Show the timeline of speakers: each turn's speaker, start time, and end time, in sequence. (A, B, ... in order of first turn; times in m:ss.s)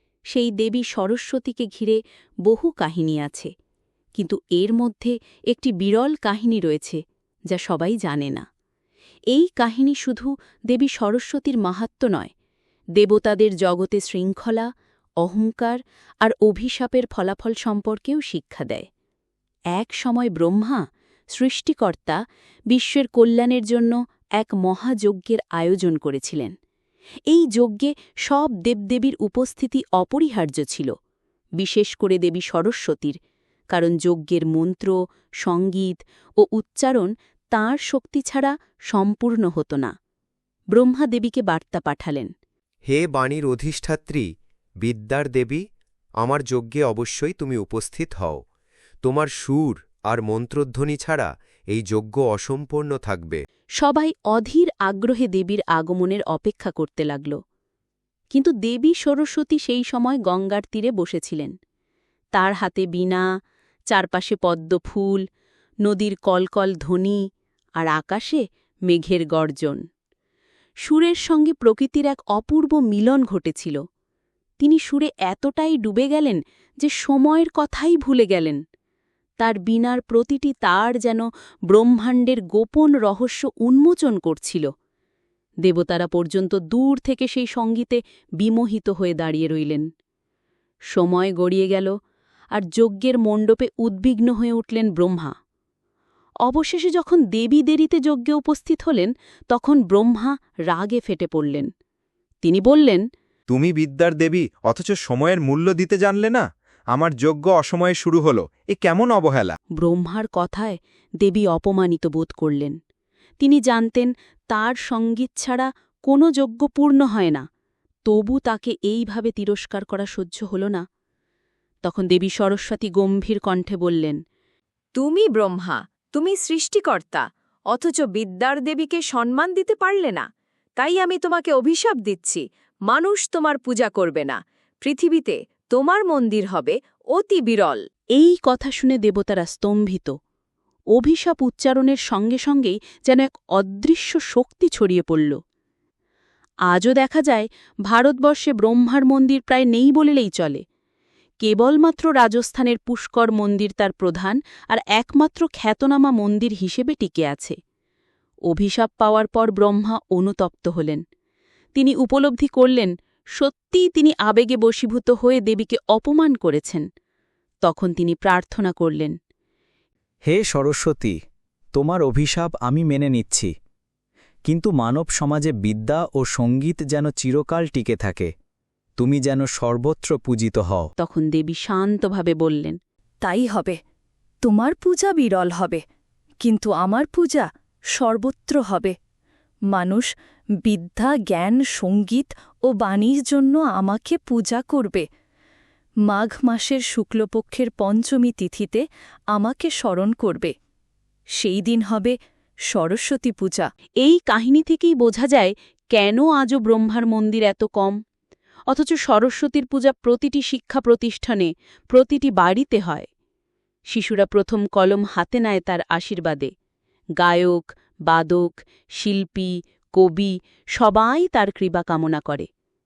0:00.3-0:03.5 A
0:04.2-0:08.4 A
0:09.3-0:12.3 A
0:13.0-0:14.7 A
0:15.2-0:18.9 A
0:19.8-0:20.8 A
0:21.4-0:22.2 A
0:22.7-0:26.5 A
0:27.3-0:30.9 A
0:31.6-0:33.2 A
0:33.7-0:39.9 A
0:40.7-0:42.3 A
0:42.9-0:44.3 B
0:44.8-0:45.6 B
0:46.2-0:48.4 B
0:49.0-0:53.4 B
0:53.8-0:57.4 A
0:58.3-1:01.5 A
1:02.4-1:03.2 A
1:03.9-1:05.2 A
1:05.8-1:07.2 A
1:07.8-1:09.8 A
1:10.8-1:13.8 A
1:14.6-1:18.6 A
1:19.4-1:24.7 A
1:25.6-1:29.9 A
1:30.9-1:31.9 A
1:32.5-1:35.3 A
1:36.4-1:41.7 A
1:42.4-1:43.0 A
1:43.5-1:49.6 C
1:49.8-1:52.8 A
1:53.4-1:57.4 A
1:58.1-2:00.8 A
2:01.8-2:04.2 A
2:05.0-2:17.8 D
2:18.2-2:20.1 A
2:21.0-2:25.4 A
2:26.7-2:30.6 A
2:31.4-2:37.6 A
2:38.5-2:41.0 A
2:41.8-2:46.8 A
2:47.6-2:49.1 A
2:50.3-2:51.2 E
2:51.7-2:53.5 E
2:54.5-2:58.3 E
2:59.0-3:00.9 E
3:01.0-3:02.8 A
3:03.2-3:03.8 F
3:04.4-3:05.8 F
3:06.4-3:07.4 F
3:08.0-3:08.9 F
3:09.8-3:10.1 F
3:10.6-3:15.0 F
3:16.1-3:18.8 F
3:19.4-3:20.5 F
3:21.4-3:22.1 F
3:22.7-3:23.7 F
3:24.0-3:28.0 A
3:28.7-3:33.1 A
3:33.9-3:36.5 A
3:37.2-3:42.5 A